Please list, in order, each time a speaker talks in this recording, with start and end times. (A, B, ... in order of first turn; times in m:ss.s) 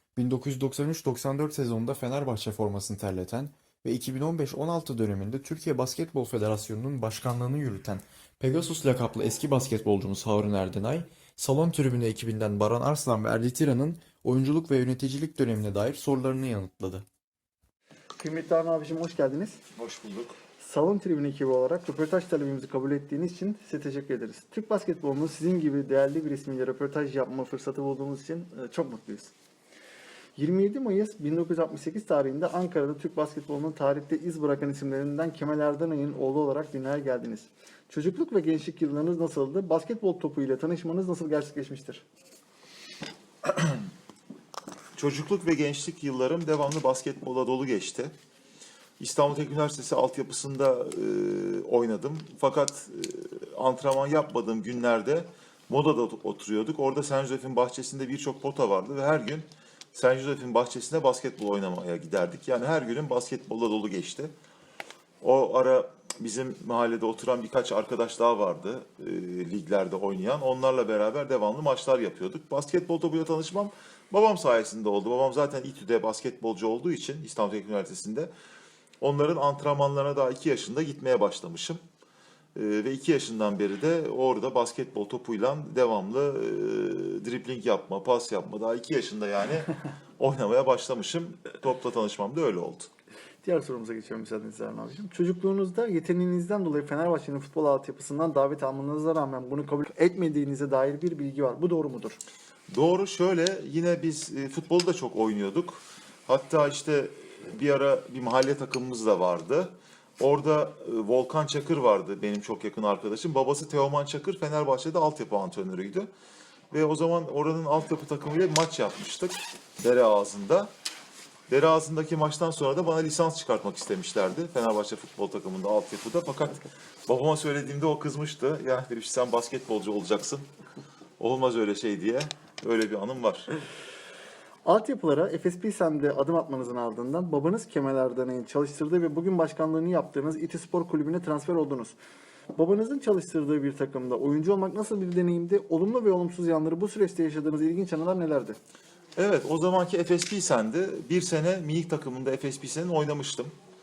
0:00.2-0:17.0 A
0:18.2-0:19.6 B
0:19.7-0:20.4 C
0:20.6-0:29.3 B
0:30.4-0:42.0 B
0:43.4-0:43.8 C
0:45.0-0:48.1 C
0:49.0-1:04.3 C
1:05.2-1:18.3 C
1:19.0-1:21.8 C
1:22.6-1:32.9 C
1:33.4-1:42.2 B
1:42.7-1:56.1 C
1:56.7-2:00.7 C
2:01.5-2:10.5 C
2:11.2-2:13.5 C
2:14.6-2:22.0 B
2:22.6-2:28.6 B
2:29.2-2:33.5 C